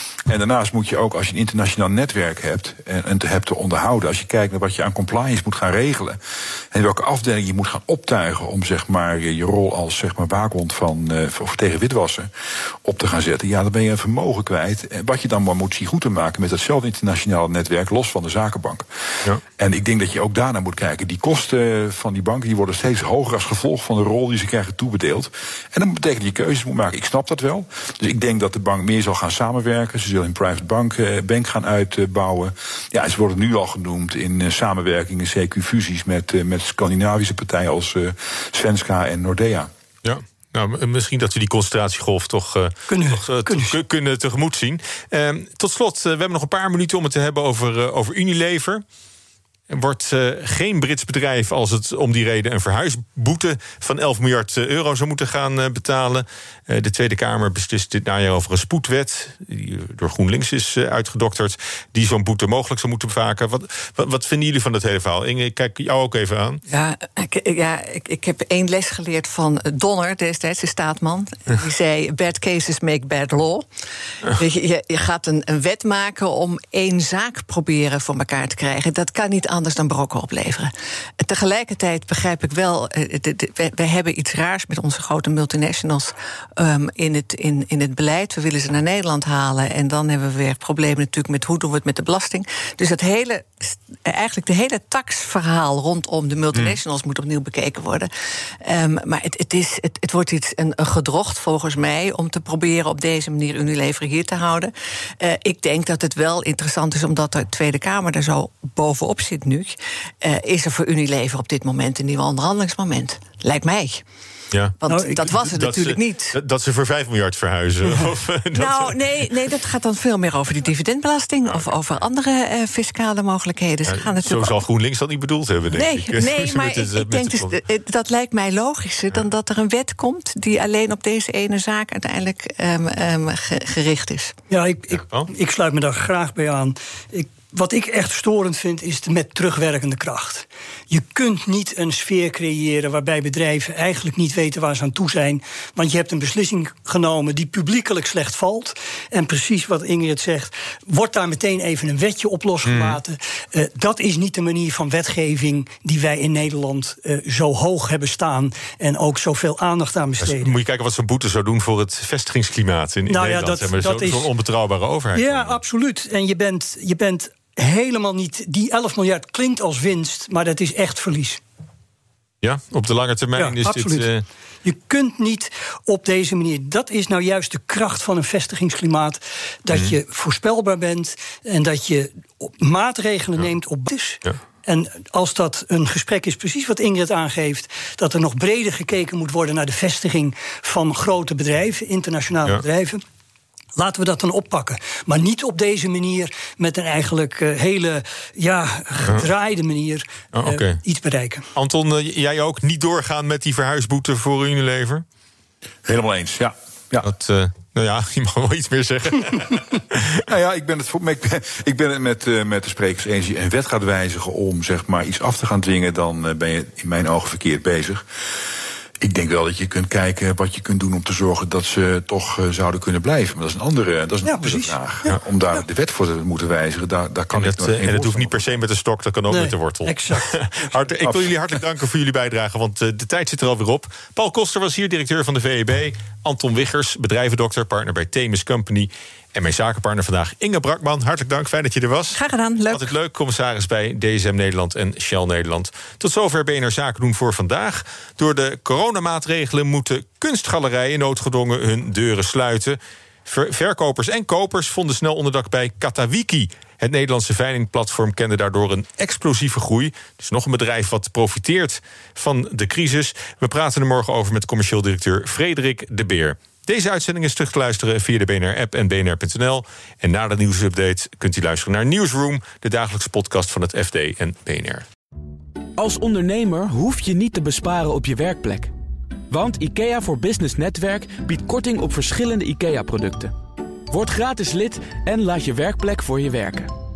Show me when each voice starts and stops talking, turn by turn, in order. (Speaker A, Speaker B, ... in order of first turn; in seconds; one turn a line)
Speaker A: 0.3-6.2
Speaker A: 6.7-12.3
Speaker A: 12.8-39.7
Speaker B: 40.0-48.8
Speaker C: 42.9-43.8
Speaker B: 49.7-66.6
Speaker D: 66.7-73.7
Speaker D: 74.2-98.1
Speaker D: 98.6-114.0
Speaker D: 114.8-116.4
Speaker C: 114.9-115.3
Speaker B: 115.3-119.3
Speaker D: 118.5-124.6
Speaker B: 123.8-127.5
Speaker D: 125.7-134.3
Speaker C: 134.5-160.5
Speaker B: 135.0-135.3
Speaker B: 152.7-153.0
Speaker B: 160.2-165.6
Speaker C: 163.1-164.3
Speaker C: 165.1-171.4
Speaker B: 172.4-174.2
Speaker C: 173.3-174.1
Speaker C: 174.6-193.0
Speaker C: 193.8-201.5
Speaker B: 200.3-200.8
Speaker B: 201.6-205.0
Speaker A: 205.8-207.1
Speaker B: 207.0-210.2
Speaker A: 210.2-218.0
Speaker A: 219.0-228.5
Speaker C: 224.2-224.8
Speaker B: 227.3-242.2
Speaker C: 229.3-230.3
Speaker D: 242.1-242.9
Speaker B: 242.7-274.9
Speaker E: 275.8-278.7
Speaker E: 279.3-283.3
Speaker E: 283.9-286.7